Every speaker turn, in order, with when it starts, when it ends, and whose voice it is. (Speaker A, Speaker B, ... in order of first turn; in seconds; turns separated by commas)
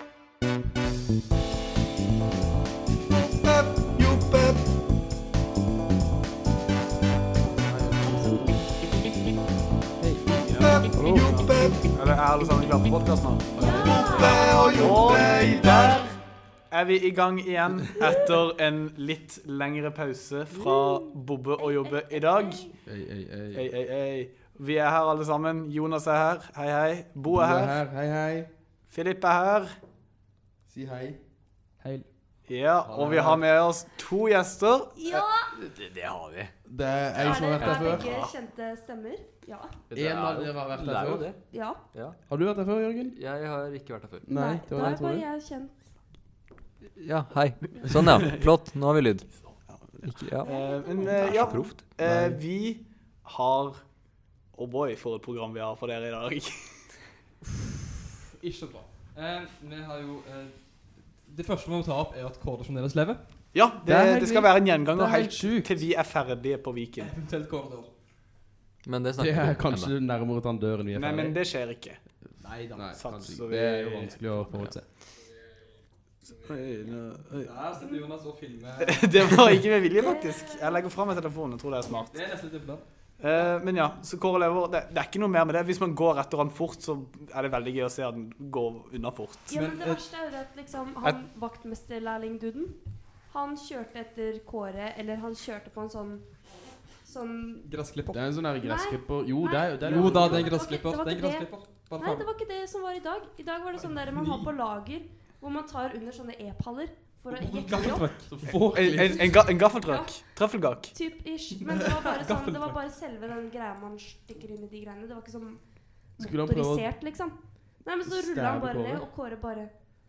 Speaker A: 4.0-4.3, Speaker B: 7.6-8.5, Speaker C: 7.7-8.5, Speaker C: 10.0-11.6, Speaker A: 10.5-13.8, Speaker B: 10.6-11.7, Speaker D: 13.6-14.9, Speaker B: 13.6-16.0, Speaker A: 14.7-16.2, Speaker A: 16.7-22.7, Speaker D: 20.6-22.8, Speaker B: 22.9-23.7, Speaker A: 23.5-27.8, Speaker B: 27.3-28.5, Speaker A: 28.9-29.7, Speaker B: 30.7-31.2, Speaker C: 31.8-32.1, Speaker A: 32.5-35.2, Speaker B: 32.9-33.5, Speaker D: 35.0-35.5, Speaker E: 35.5-36.5, Speaker B: 36.7-38.1, Speaker D: 37.2-39.8, Speaker A: 37.6-38.3, Speaker E: 39.9-42.2, Speaker B: 39.9-41.3, Speaker D: 41.5-41.8, Speaker B: 42.3-43.2, Speaker E: 43.1-44.3, Speaker B: 44.2-45.3, Speaker D: 44.3-45.8, Speaker E: 47.0-49.5, Speaker A: 49.3-53.8, Speaker E: 50.1-50.5, Speaker D: 50.4-51.7, Speaker E: 51.0-51.8, Speaker B: 52.0-52.4, Speaker A: 54.5-56.9, Speaker C: 58.4-63.5, Speaker A: 63.5-67.1, Speaker B: 63.8-65.8, Speaker C: 67.0-67.9, Speaker E: 68.8-70.0, Speaker B: 69.2-71.4, Speaker A: 70.9-72.0, Speaker C: 72.4-72.9, Speaker B: 72.7-74.8, Speaker A: 72.9-74.5, Speaker C: 74.5-74.9, Speaker A: 76.3-77.5, Speaker C: 77.3-79.4, Speaker D: 77.8-78.0, Speaker A: 78.8-82.2, Speaker D: 80.0-80.8, Speaker C: 81.8-82.9, Speaker A: 83.2-89.5, Speaker D: 89.5-97.7, Speaker C: 89.5-90.0, Speaker C: 97.6-98.2, Speaker B: 98.1-100.5, Speaker D: 98.6-108.1, Speaker C: 99.8-102.3, Speaker C: 103.8-104.5, Speaker C: 107.3-108.4, Speaker B: 107.9-109.5, Speaker A: 108.5-110.9, Speaker D: 109.0-110.3, Speaker D: 110.9-119.7, Speaker C: 111.7-112.8, Speaker B: 116.2-116.9, Speaker B: 118.0-119.1